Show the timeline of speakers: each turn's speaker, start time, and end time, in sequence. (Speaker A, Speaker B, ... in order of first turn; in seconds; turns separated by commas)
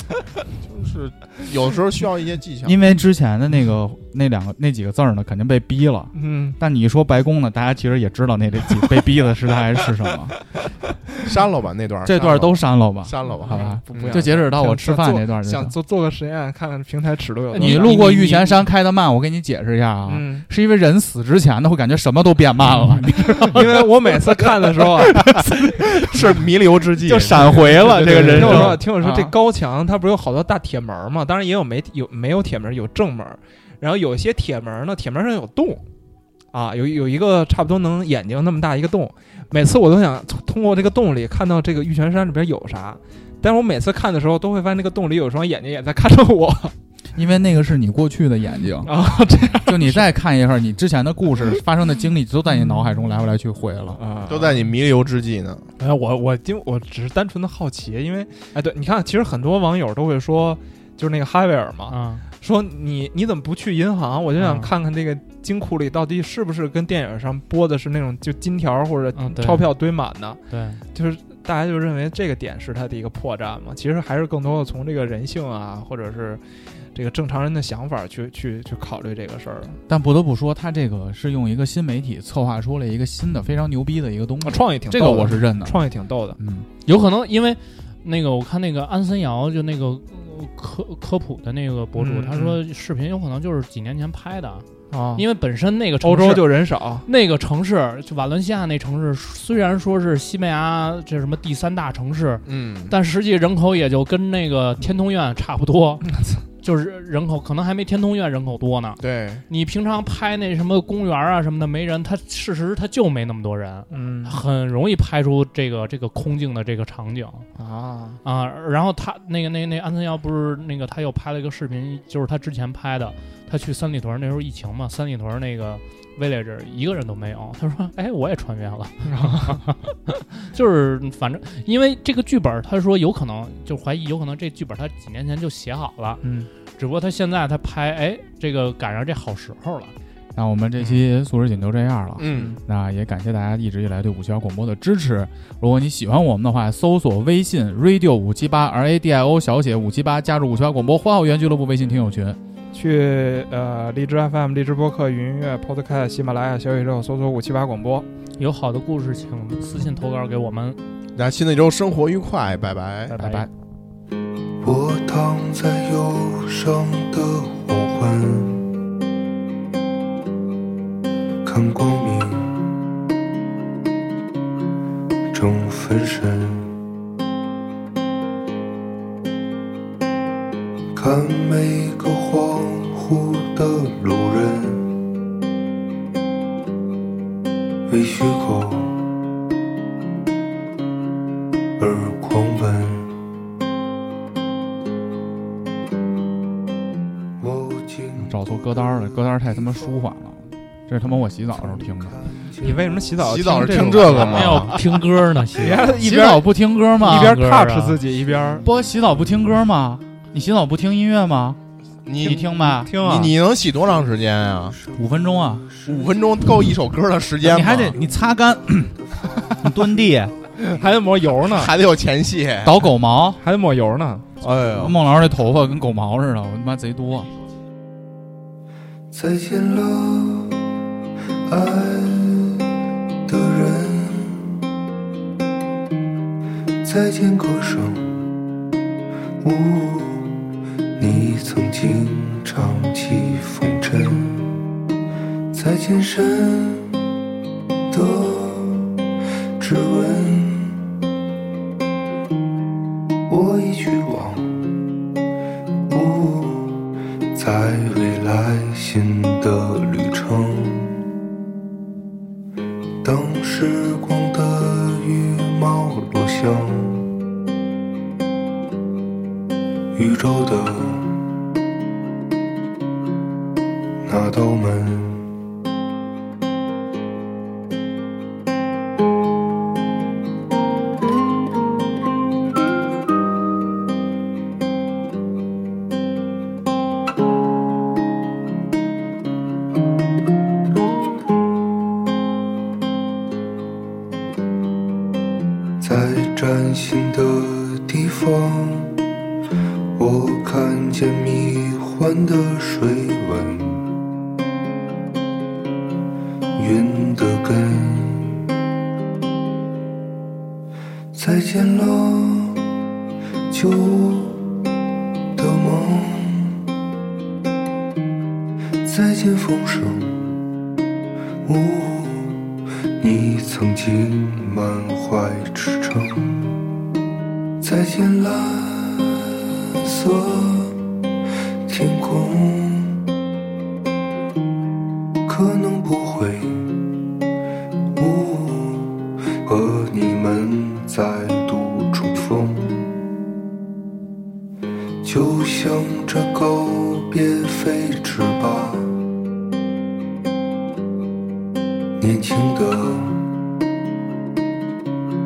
Speaker A: 0.5-2.8, Speaker B: 2.6-10.4, Speaker C: 6.2-6.6, Speaker A: 11.2-14.2, Speaker B: 12.1-15.8, Speaker C: 13.4-18.6, Speaker B: 17.6-26.4, Speaker D: 17.6-17.9, Speaker C: 20.1-20.5, Speaker C: 22.9-25.2, Speaker A: 25.0-28.8, Speaker B: 27.0-29.4, Speaker C: 27.7-35.8, Speaker C: 36.5-46.7, Speaker B: 47.1-48.9, Speaker C: 48.8-50.1, Speaker B: 49.6-54.0, Speaker C: 54.0-54.7, Speaker A: 54.3-55.7, Speaker C: 55.8-70.4, Speaker D: 61.9-62.2, Speaker D: 64.4-64.7, Speaker D: 69.2-69.7, Speaker D: 70.5-70.8, Speaker C: 70.9-76.4, Speaker C: 77.0-79.8, Speaker B: 79.9-85.8, Speaker C: 84.4-86.4, Speaker B: 86.4-86.7, Speaker D: 86.8-94.7, Speaker C: 92.0-92.6, Speaker C: 94.9-95.3, Speaker D: 95.2-106.1, Speaker C: 96.0-97.1, Speaker A: 102.5-103.0, Speaker C: 106.2-106.4, Speaker D: 106.6-117.5, Speaker A: 109.0-109.5, Speaker C: 113.9-114.4, Speaker C: 117.6-118.2, Speaker D: 118.2-136.2, Speaker C: 129.1-129.6, Speaker C: 136.2-136.5, Speaker D: 136.8-139.9, Speaker B: 140.3-152.4, Speaker A: 142.2-142.5, Speaker C: 142.3-142.6, Speaker C: 152.7-158.1, Speaker D: 158.4-160.8, Speaker A: 161.2-163.2, Speaker D: 163.1-163.5, Speaker B: 163.2-163.5, Speaker E: 164.6-168.7, Speaker E: 171.4-172.7, Speaker E: 175.3-176.8, Speaker E: 180.9-185.0, Speaker E: 187.9-189.0, Speaker E: 191.8-193.2, Speaker E: 197.4-200.0, Speaker B: 198.2-202.2, Speaker E: 201.5-203.2, Speaker C: 202.6-204.7, Speaker A: 203.2-204.8, Speaker B: 203.8-204.6, Speaker D: 204.0-206.0, Speaker C: 205.6-208.7, Speaker B: 206.0-207.4, Speaker D: 207.0-208.0, Speaker B: 208.6-211.6, Speaker A: 212.1-212.5, Speaker B: 212.2-212.9, Speaker C: 212.3-213.3, Speaker A: 213.0-214.8, Speaker E: 214.7-216.2, Speaker B: 214.9-215.7, Speaker A: 215.9-218.0, Speaker B: 217.4-220.3, Speaker E: 218.5-220.5, Speaker C: 220.7-221.7, Speaker A: 221.5-222.8, Speaker B: 222.6-223.4, Speaker C: 223.4-224.3, Speaker A: 224.4-224.9, Speaker B: 224.8-227.3, Speaker E: 229.1-230.6, Speaker E: 231.5-232.7, Speaker E: 233.3-234.5, Speaker E: 236.8-238.2, Speaker E: 239.4-240.4, Speaker E: 241.0-244.6, Speaker E: 245.5-246.9, Speaker E: 247.9-248.9, Speaker E: 249.6-250.9, Speaker E: 253.3-254.7, Speaker E: 255.9-261.0, Speaker E: 263.0-267.1, Speaker E: 269.9-271.1, Speaker E: 274.0-275.3, Speaker E: 295.8-299.0, Speaker E: 300.0-303.9, Speaker E: 306.6-308.5, Speaker E: 311.1-312.6, Speaker E: 313.5-314.5, Speaker E: 315.4-316.6, Speaker E: 318.8-320.4, Speaker E: 321.4-326.6, Speaker E: 327.6-330.8, Speaker E: 331.6-333.0, Speaker E: 335.3-336.8, Speaker E: 337.9-343.0, Speaker E: 345.0-349.0, Speaker E: 352.0-353.3